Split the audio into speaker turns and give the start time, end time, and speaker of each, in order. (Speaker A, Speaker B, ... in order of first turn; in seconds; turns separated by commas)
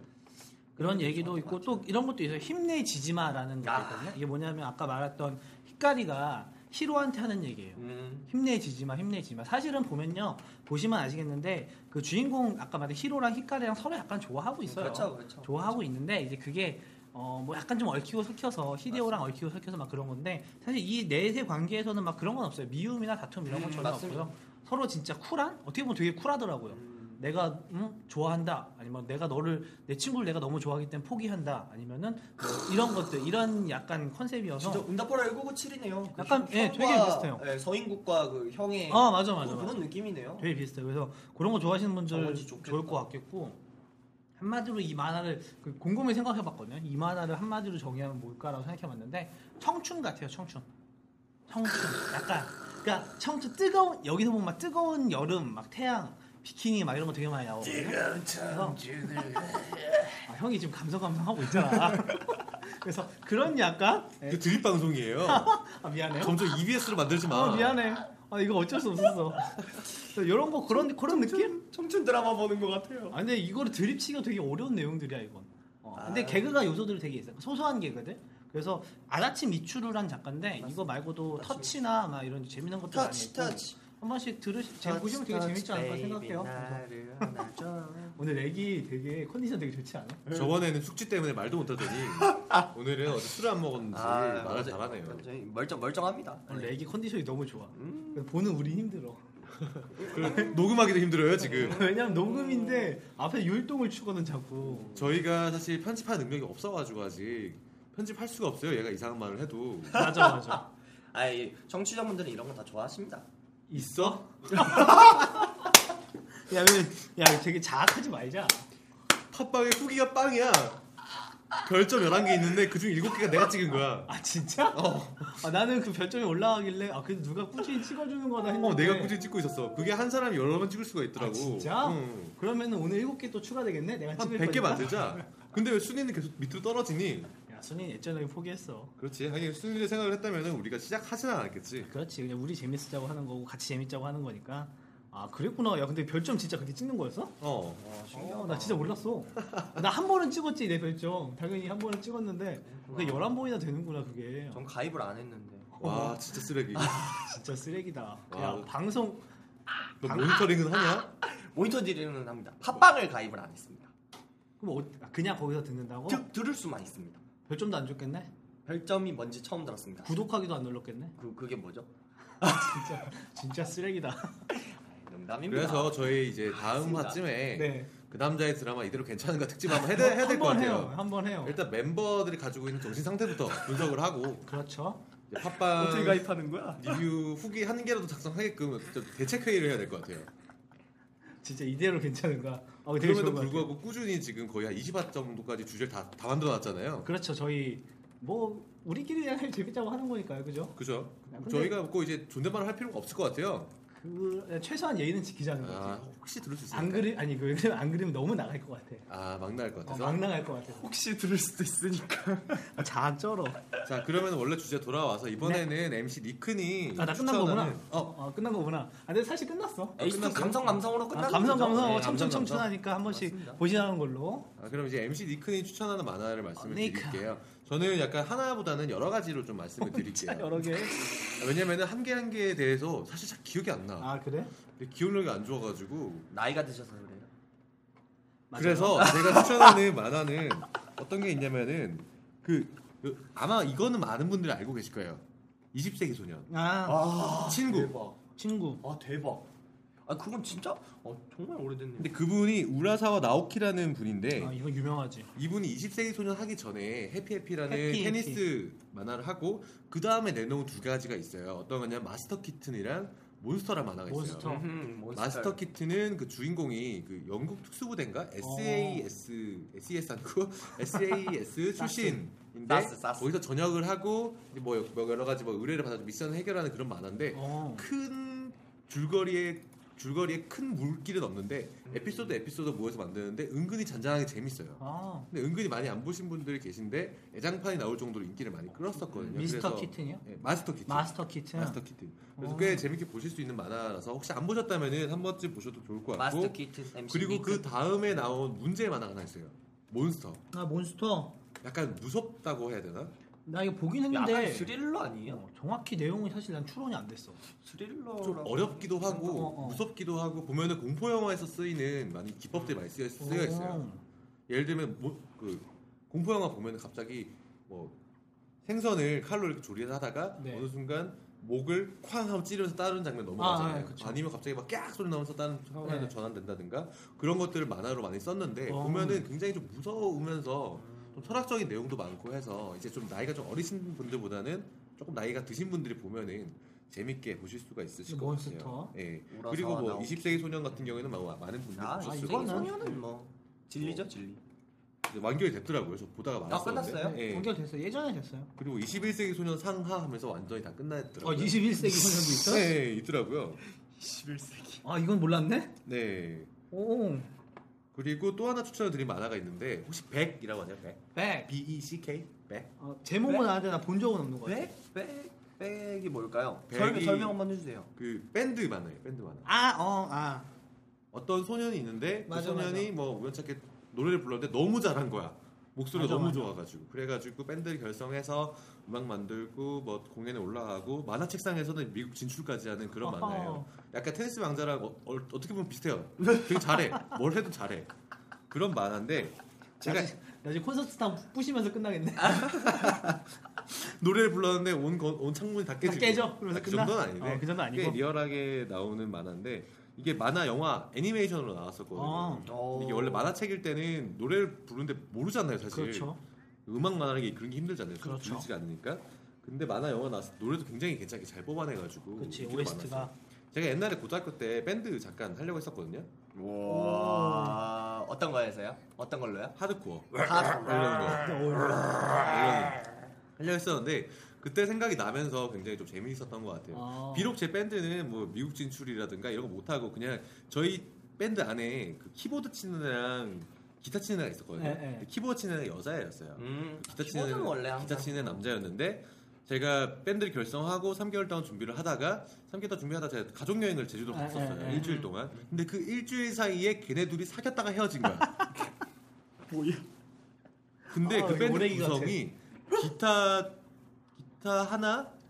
Speaker A: 0.8-1.9, Speaker B: 0.8-34.9, Speaker A: 3.6-4.1, Speaker A: 7.8-8.3, Speaker A: 14.7-15.8, Speaker A: 18.9-19.2, Speaker A: 23.5-24.3, Speaker A: 26.7-27.2, Speaker A: 34.6-40.5, Speaker B: 36.1-37.4, Speaker B: 38.9-39.9, Speaker B: 40.4-43.6, Speaker A: 42.1-43.0, Speaker B: 44.4-50.6, Speaker B: 51.5-58.8, Speaker A: 57.7-60.1, Speaker B: 60.2-64.6, Speaker C: 64.3-65.5, Speaker B: 65.2-66.5, Speaker C: 66.2-67.8, Speaker B: 67.2-71.6, Speaker A: 70.7-73.2, Speaker B: 73.1-87.3, Speaker A: 76.0-76.6, Speaker A: 80.6-81.7, Speaker A: 82.9-83.8, Speaker A: 84.8-88.2, Speaker B: 88.2-90.3, Speaker A: 90.3-90.5, Speaker C: 90.3-95.2, Speaker A: 92.0-92.7, Speaker A: 93.9-96.8, Speaker B: 96.5-99.2, Speaker A: 97.7-98.6, Speaker C: 99.6-101.8, Speaker A: 100.0-100.7, Speaker A: 101.5-103.0, Speaker B: 101.5-104.9, Speaker A: 104.6-105.1, Speaker C: 104.9-110.1, Speaker A: 109.9-113.2, Speaker B: 109.9-110.6, Speaker B: 113.7-115.6, Speaker C: 113.7-114.9, Speaker A: 114.6-114.9, Speaker B: 116.5-118.7, Speaker C: 119.3-120.8, Speaker C: 121.6-124.1, Speaker B: 124.1-129.1, Speaker C: 124.7-125.4, Speaker C: 128.5-132.3, Speaker B: 131.1-135.3, Speaker C: 134.2-137.3, Speaker B: 137.5-138.9, Speaker C: 139.0-141.9, Speaker B: 141.8-147.4, Speaker C: 147.4-147.8, Speaker A: 147.8-149.0, Speaker B: 148.1-154.6, Speaker C: 149.4-149.8, Speaker A: 152.7-153.3, Speaker A: 154.5-155.7, Speaker B: 155.7-156.2, Speaker C: 155.8-157.0, Speaker A: 156.7-157.3, Speaker B: 157.1-159.2, Speaker C: 158.3-158.7, Speaker C: 160.0-161.1, Speaker A: 161.2-163.9, Speaker B: 164.6-166.2, Speaker A: 166.1-167.2, Speaker B: 167.5-168.3, Speaker A: 168.7-170.1, Speaker B: 170.0-171.1, Speaker A: 171.2-171.9, Speaker A: 172.4-173.0, Speaker B: 172.4-174.5, Speaker A: 174.5-177.2, Speaker C: 175.5-184.5, Speaker B: 177.5-177.9, Speaker B: 179.8-181.6, Speaker B: 184.4-185.0, Speaker C: 185.3-190.3, Speaker A: 185.6-187.0, Speaker B: 191.4-193.7, Speaker C: 193.0-197.1, Speaker B: 197.0-201.8, Speaker C: 200.8-203.7, Speaker B: 203.9-206.1, Speaker C: 205.6-207.1, Speaker B: 206.7-209.1, Speaker C: 209.1-210.2, Speaker B: 209.8-210.9, Speaker A: 210.8-212.8, Speaker B: 212.6-213.6, Speaker C: 213.8-218.1, Speaker B: 216.9-220.0, Speaker C: 220.0-220.8, Speaker A: 220.0-222.0, Speaker B: 221.1-224.5, Speaker C: 221.6-222.7, Speaker A: 223.0-223.6, Speaker C: 224.6-234.1, Speaker B: 226.6-227.3, Speaker B: 229.8-231.2, Speaker B: 234.0-234.5, Speaker C: 234.7-236.3, Speaker A: 236.3-237.3, Speaker B: 238.5-239.2, Speaker C: 238.5-246.5, Speaker A: 239.0-239.8, Speaker B: 246.5-247.1, Speaker A: 246.8-248.2, Speaker C: 247.4-247.9, Speaker B: 248.3-248.8, Speaker A: 248.8-249.5, Speaker A: 250.1-252.2, Speaker C: 252.0-254.6, Speaker B: 254.4-255.3, Speaker C: 255.3-264.5, Speaker B: 257.7-258.4, Speaker B: 264.1-264.7, Speaker A: 264.4-265.6, Speaker C: 265.1-296.6, Speaker B: 268.4-269.1, Speaker B: 271.8-272.2, Speaker A: 272.7-273.3, Speaker B: 277.3-277.9, Speaker A: 281.9-282.4, Speaker B: 284.8-285.3, Speaker B: 289.3-290.2, Speaker B: 290.9-291.8, Speaker B: 292.4-292.9, Speaker A: 296.1-297.9, Speaker C: 297.1-300.4, Speaker B: 300.5-301.4, Speaker C: 301.6-303.1, Speaker B: 303.5-304.7, Speaker A: 304.1-305.4, Speaker B: 305.2-307.4, Speaker A: 307.6-309.3, Speaker C: 308.2-313.8, Speaker B: 309.1-309.8, Speaker B: 313.2-314.0, Speaker C: 314.5-317.9, Speaker C: 318.6-342.9, Speaker B: 320.4-320.7, Speaker B: 323.4-324.2, Speaker B: 325.8-326.1, Speaker B: 328.7-329.3, Speaker A: 330.7-331.5, Speaker B: 338.1-338.9, Speaker A: 339.3-341.2, Speaker A: 341.7-344.4, Speaker B: 342.0-342.7, Speaker C: 343.8-344.1, Speaker C: 345.1-347.5, Speaker A: 346.5-347.2, Speaker B: 347.0-348.5, Speaker C: 348.6-353.6, Speaker B: 351.2-352.7, Speaker A: 353.9-354.8, Speaker B: 354.8-355.7, Speaker C: 355.9-356.5, Speaker B: 356.7-357.3, Speaker C: 357.9-362.7, Speaker B: 361.1-361.5, Speaker B: 362.8-364.7, Speaker A: 364.4-367.9, Speaker C: 366.7-367.4, Speaker C: 367.9-369.5, Speaker B: 369.4-370.5, Speaker C: 371.1-387.9, Speaker B: 372.3-372.9, Speaker B: 375.9-376.5, Speaker B: 383.0-383.7, Speaker A: 386.2-386.6, Speaker C: 388.5-390.1, Speaker B: 389.8-392.9, Speaker C: 392.3-406.1, Speaker B: 395.8-398.0, Speaker B: 401.9-402.5, Speaker A: 402.5-403.3, Speaker B: 405.7-406.2, Speaker C: 406.6-416.1, Speaker B: 408.0-408.5, Speaker B: 412.2-413.1, Speaker A: 416.3-419.6, Speaker B: 416.6-417.7, Speaker C: 419.6-421.3, Speaker A: 420.2-421.4, Speaker B: 421.1-422.3, Speaker A: 421.9-422.6, Speaker C: 422.0-422.8, Speaker C: 423.4-448.4, Speaker B: 426.7-427.4, Speaker B: 434.6-435.1, Speaker A: 436.4-438.4, Speaker B: 444.1-444.9, Speaker A: 444.7-445.5, Speaker A: 449.5-449.8, Speaker C: 450.9-453.6, Speaker B: 451.0-452.2, Speaker C: 454.2-455.1